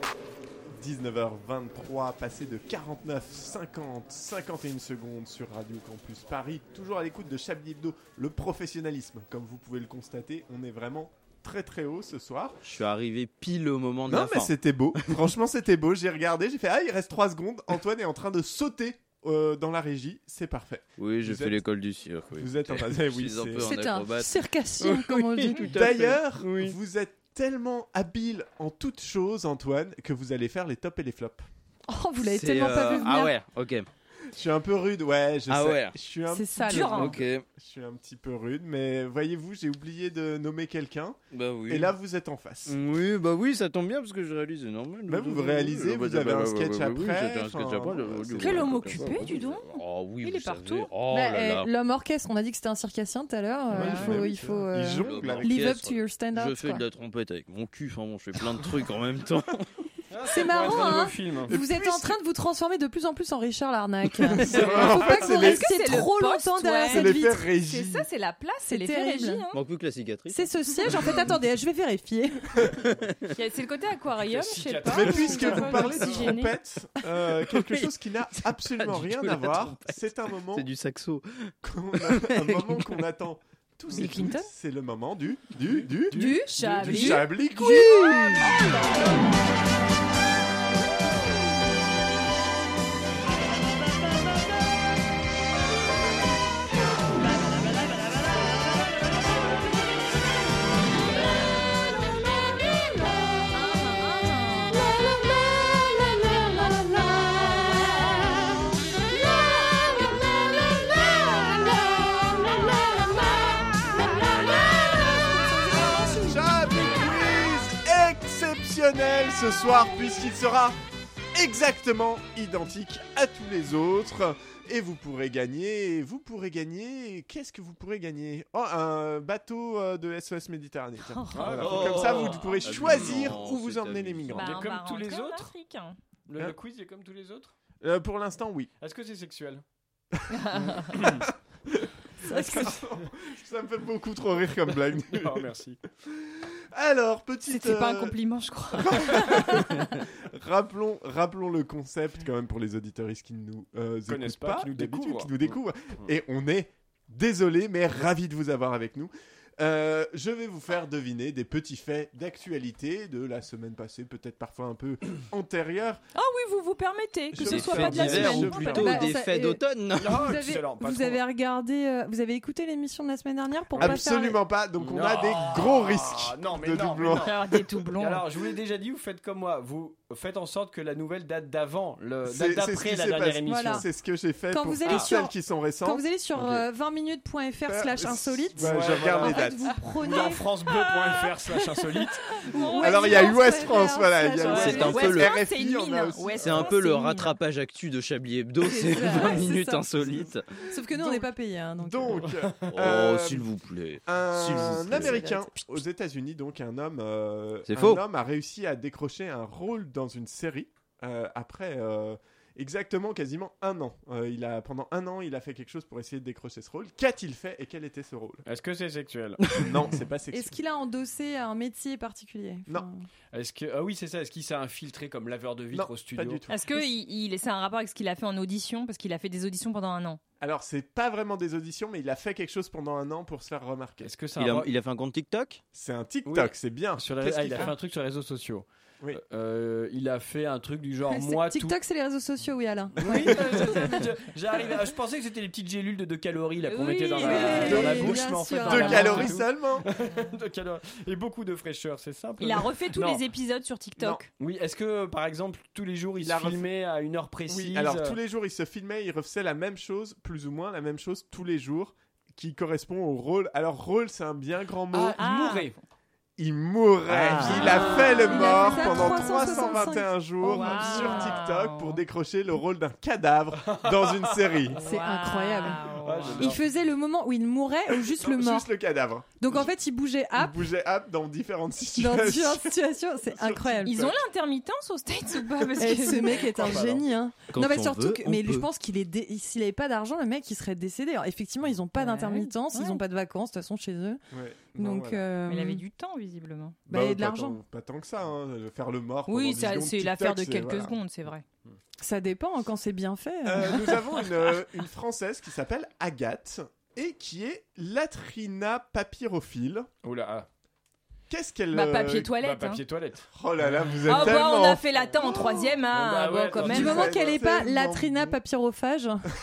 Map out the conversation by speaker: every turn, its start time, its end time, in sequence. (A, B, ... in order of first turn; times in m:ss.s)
0:00.8-0:12.6 A
0:12.6-0:14.5 B
0:14.1-0:21.6 A
0:21.0-0:26.8 B
0:22.4-0:23.7 A
0:23.6-0:25.7 C
0:25.6-0:31.4 A
0:31.9-0:33.3 C
0:32.2-0:33.9 B
0:34.3-0:42.8 A
0:35.5-0:36.0 B
0:36.3-0:37.0 C
0:36.7-0:37.2 D
0:36.8-0:37.4 B
0:41.3-0:41.9 B
0:42.6-0:51.7 B
0:45.1-0:49.3 A
0:48.4-0:50.9 D
0:51.1-0:56.8 C
0:53.7-0:55.6 A
0:53.8-0:54.2 D
0:55.0-0:59.7 B
1:00.1-1:01.5 E
1:00.3-1:07.4 C
1:01.5-1:02.2 A
1:04.4-1:05.8 A
1:04.8-1:09.6 D
1:06.9-1:08.1 A
1:08.6-1:09.4 C
1:09.5-1:11.2 B
1:10.3-1:12.4 C
1:12.8-1:13.1 B
1:13.3-1:16.6 D
1:14.3-1:16.3 E
1:14.8-1:20.7 A
1:17.5-1:17.9 B
1:18.4-1:22.9 B
1:21.6-1:28.3 A
1:23.9-1:24.5 C
1:26.1-1:27.0 E
1:26.1-1:27.8 C
1:26.2-1:27.3 D
1:27.7-1:28.5 B
1:43.5-1:45.0 D
1:47.1-1:48.6 D
1:51.1-1:51.6 D
1:52.4-1:55.2 D
1:55.5-1:56.2 C
1:55.7-1:56.1 D
1:56.0-2:00.8 A
2:01.3-2:14.6 A
2:11.1-2:11.6 D
2:11.3-2:13.4 E
2:11.5-2:14.4 B
2:14.3-2:16.0 D
2:14.4-2:15.5 E
2:16.3-2:17.5 E
2:17.8-2:18.7 A
2:18.8-2:19.6 E
2:20.3-2:20.8 D
2:20.8-2:21.2 E
2:20.9-2:25.5 A
2:22.3-2:22.7 C
2:25.1-2:25.8 E
2:26.1-2:28.2 A
2:27.5-2:29.5 D
2:28.7-2:46.0 A
2:34.1-2:35.6 E
2:46.1-2:49.1 D
2:47.3-2:49.0 A
2:47.4-2:50.3 B
2:47.8-2:48.5 E
2:48.7-2:54.4 C
2:50.0-2:51.2 E
2:53.7-2:54.0 E
2:53.8-2:57.4 A
2:54.8-2:57.4 E
2:57.2-2:58.3 D
2:57.9-3:03.8 E
3:02.2-3:06.7 A
3:03.4-3:03.8 C
3:04.5-3:10.4 C
3:07.6-3:09.8 A
3:08.6-3:12.4 E
3:10.7-3:11.2 D
3:12.0-3:15.0 C
3:12.4-3:13.6 D
3:12.8-3:16.7 A
3:14.4-3:17.4 D
3:14.4-3:15.4 B
3:16.4-3:20.4 B
3:18.6-3:19.9 C
3:20.7-3:22.3 C
3:21.8-3:23.5 A
3:22.7-3:25.2 B
3:24.0-3:38.4 A
3:25.0-3:25.5 C
3:27.7-3:28.0 B
3:38.4-3:39.7 E
3:39.6-3:40.6 A
3:40.3-3:43.0 C
3:43.3-3:46.4 E
3:45.7-3:46.6 A
3:46.5-3:50.2 D
3:50.4-3:54.1 A
3:54.0-3:54.7 E
3:54.4-3:55.6 B
3:55.7-3:57.7 A
3:56.2-4:01.8 E
4:01.1-4:03.9 C
4:03.0-4:13.2 E
4:06.7-4:08.0 D
4:07.2-4:09.3 C
4:07.6-4:09.8 A
4:12.4-4:14.3 D
4:14.4-4:18.2 E
4:16.2-4:16.6 A
4:17.5-4:25.2 A
4:24.9-4:25.8 E
4:25.2-4:25.7 D
4:26.4-4:34.8 A
4:27.1-4:28.0 B
4:27.5-4:29.5 D
4:27.6-4:31.2 C
4:30.4-4:32.0 D
4:33.6-4:34.6 E
4:34.8-4:36.5 D
4:34.8-4:35.8 C
4:36.0-4:36.6 E
4:36.4-4:38.7 C
4:38.1-4:39.6 A
4:39.4-4:40.6 C
4:40.3-4:44.2 A
4:42.0-4:44.0 C
4:43.8-4:46.5 D
4:45.8-4:54.2 C
4:46.5-4:47.0 E
4:47.5-4:48.7 B
4:52.0-4:53.0 D
4:54.3-4:55.3 A
4:54.8-4:55.8 C
4:55.5-4:56.8 D
4:56.9-4:57.6 C
4:56.9-5:01.0 A
4:59.3-5:01.4 D
5:02.0-5:04.0 C
5:03.4-5:09.9 A
5:10.0-5:10.5 E
5:11.3-5:12.3 A
5:11.7-5:12.8 D
5:12.4-5:17.2 E
5:13.3-5:15.8 A
5:14.0-5:17.1 D
5:16.6-5:18.4 A
5:16.7-5:19.2 C